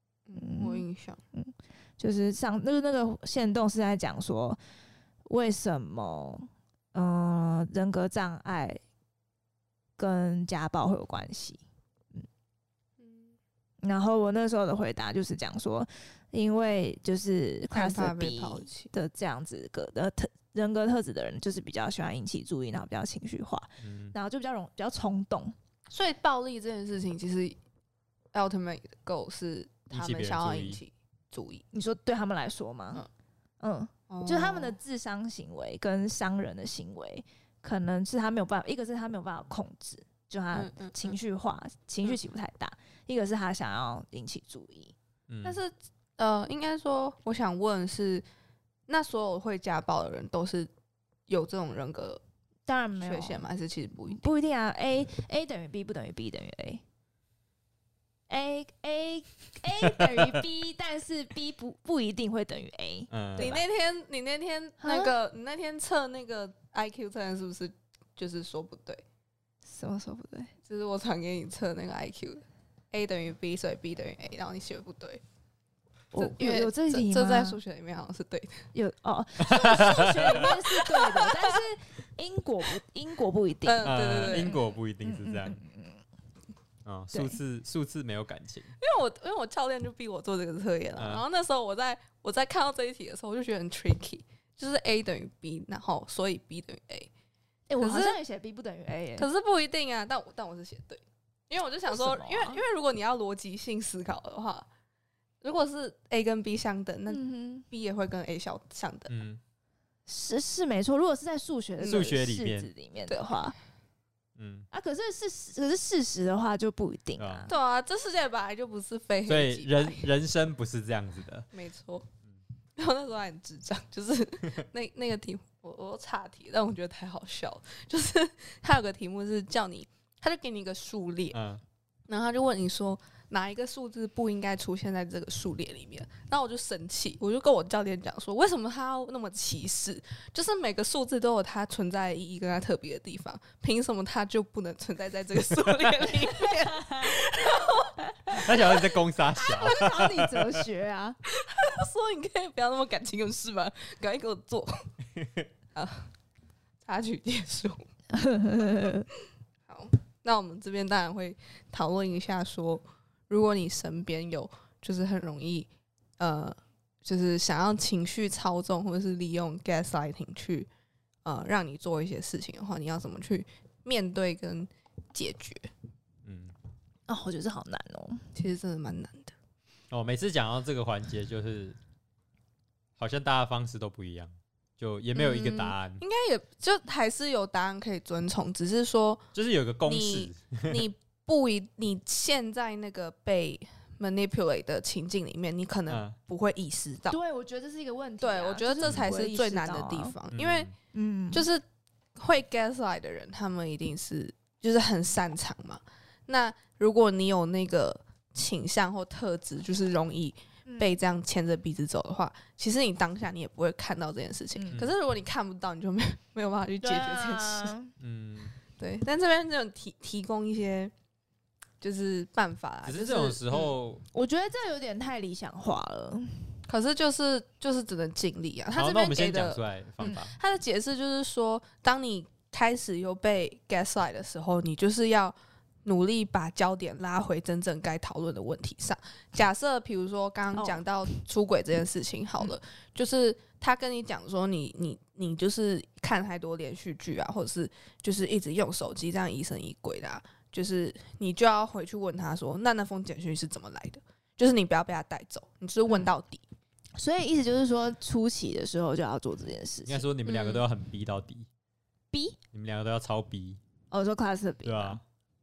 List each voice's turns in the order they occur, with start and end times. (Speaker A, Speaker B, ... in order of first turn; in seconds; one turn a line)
Speaker A: 0.3-1.2
Speaker B: 0.3-4.6
Speaker B: 5.2-8.8
Speaker B: 10.0-11.6
Speaker A: 13.0-13.4
Speaker B: 13.8-25.6
Speaker A: 17.7-18.9
Speaker C: 23.8-24.1
Speaker A: 25.9-27.6
Speaker A: 28.3-31.6
Speaker C: 29.9-30.8
Speaker B: 31.7-33.0
Speaker B: 33.6-44.9
Speaker A: 34.1-34.8
Speaker A: 40.5-41.2
Speaker C: 45.3-45.6
Speaker A: 45.4-48.2
Speaker A: 48.9-50.7
Speaker A: 51.3-52.2
Speaker B: 52.6-53.5
Speaker A: 52.9-54.3
Speaker B: 54.1-56.8
Speaker B: 58.3-63.6
Speaker C: 59.8-60.4
Speaker C: 63.1-63.6
Speaker A: 63.4-69.0
Speaker B: 64.8-65.1
Speaker B: 69.6-70.5
Speaker A: 70.7-75.2
Speaker B: 76.1-77.6
Speaker A: 76.1-78.7
Speaker B: 78.7-86.0
Speaker C: 79.4-80.5
Speaker A: 80.6-81.6
Speaker A: 83.6-84.6
Speaker C: 83.8-85.6
Speaker C: 86.8-88.7
Speaker B: 87.1-87.4
Speaker A: 88.8-97.1
Speaker C: 91.0-91.2
Speaker B: 97.7-99.3
Speaker A: 97.8-98.2
Speaker A: 99.2-104.7
Speaker B: 101.8-102.6
Speaker A: 105.4-109.1
Speaker B: 107.1-107.6
Speaker C: 109.1-109.4
Speaker B: 110.1-113.5
Speaker A: 111.8-112.1
Speaker C: 111.8-112.7
Speaker A: 113.1-113.5
Speaker C: 114.4-114.7
Speaker B: 114.7-117.5
Speaker C: 117.2-117.5
Speaker A: 117.5-120.1
Speaker C: 119.2-121.5
Speaker A: 121.5-122.1
Speaker A: 122.8-131.3
Speaker C: 131.3-131.6
Speaker A: 132.1-148.9
Speaker B: 146.4-147.2
Speaker C: 148.3-150.6
Speaker B: 149.4-151.2
Speaker A: 149.4-149.8
Speaker A: 151.3-154.8
Speaker C: 155.2-155.4
Speaker A: 155.7-156.1
Speaker A: 156.8-157.8
Speaker B: 158.1-159.1
Speaker A: 159.7-170.7
Speaker A: 171.2-175.7
Speaker C: 176.2-176.5
Speaker B: 177.1-178.2
Speaker A: 178.3-179.3
Speaker C: 179.9-181.8
Speaker C: 183.0-186.0
Speaker A: 185.1-189.2
Speaker C: 189.3-190.8
Speaker A: 189.8-197.2
Speaker C: 195.9-196.2
Speaker B: 197.1-200.2
Speaker A: 198.2-200.7
Speaker C: 200.3-200.7
Speaker B: 200.9-201.5
Speaker A: 201.3-201.6
Speaker A: 202.2-217.7
Speaker B: 216.8-217.9
Speaker C: 218.0-218.5
Speaker A: 218.8-220.9
Speaker A: 221.8-223.7
Speaker C: 222.8-224.0
Speaker B: 224.1-226.6
Speaker A: 226.7-256.4
Speaker C: 228.7-230.3
Speaker B: 240.5-240.8
Speaker B: 257.0-260.1
Speaker C: 259.9-261.5
Speaker A: 260.2-260.6
Speaker B: 262.1-262.4
Speaker C: 262.5-263.6
Speaker B: 263.9-265.0
Speaker C: 264.6-265.0